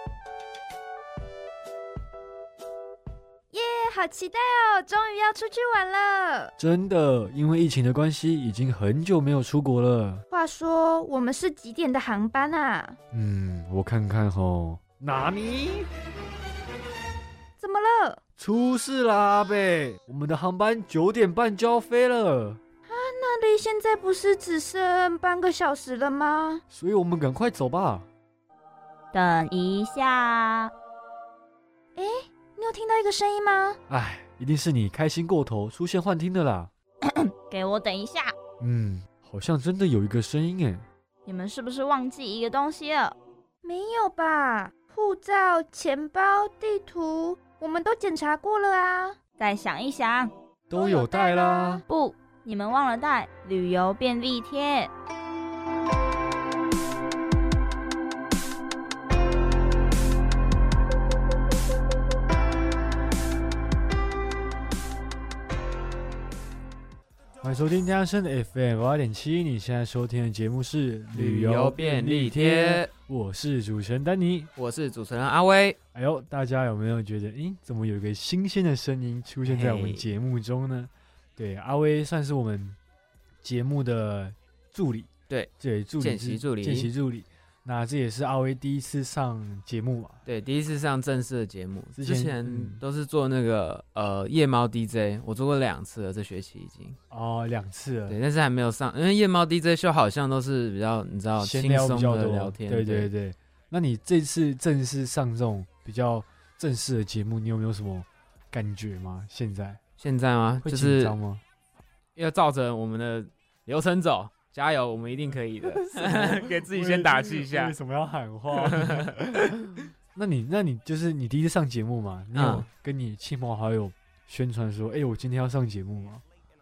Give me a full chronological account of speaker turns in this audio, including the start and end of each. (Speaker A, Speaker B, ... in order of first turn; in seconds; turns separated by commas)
Speaker A: 3.5-6.5, Speaker B: 6.6-10.2, Speaker A: 10.3-12.9, Speaker B: 13.1-15.9, Speaker A: 17.6-18.2, Speaker B: 18.4-22.6, Speaker A: 22.9-26.6, Speaker B: 26.7-28.1, Speaker C: 29.1-30.7, Speaker A: 31.9-33.8, Speaker B: 33.9-36.7, Speaker C: 37.0-38.3, Speaker B: 38.6-40.9, Speaker C: 41.2-43.1, Speaker A: 43.6-49.2, Speaker C: 49.4-50.3, Speaker B: 50.7-51.8, Speaker A: 50.7-51.8, Speaker C: 51.9-54.9, Speaker B: 67.4-74.5, Speaker D: 71.1-72.9, Speaker D: 74.5-75.8, Speaker B: 75.9-82.8, Speaker D: 79.4-80.0, Speaker B: 83.4-90.2, Speaker D: 85.3-86.9, Speaker D: 90.2-97.0, Speaker B: 91.9-92.8, Speaker B: 97.1-98.2, Speaker D: 98.1-103.1, Speaker B: 101.3-109.8, Speaker D: 110.0-111.2, Speaker B: 110.6-111.4, Speaker D: 112.2-117.7, Speaker B: 115.6-126.2, Speaker D: 118.5-119.1, Speaker D: 122.3-122.7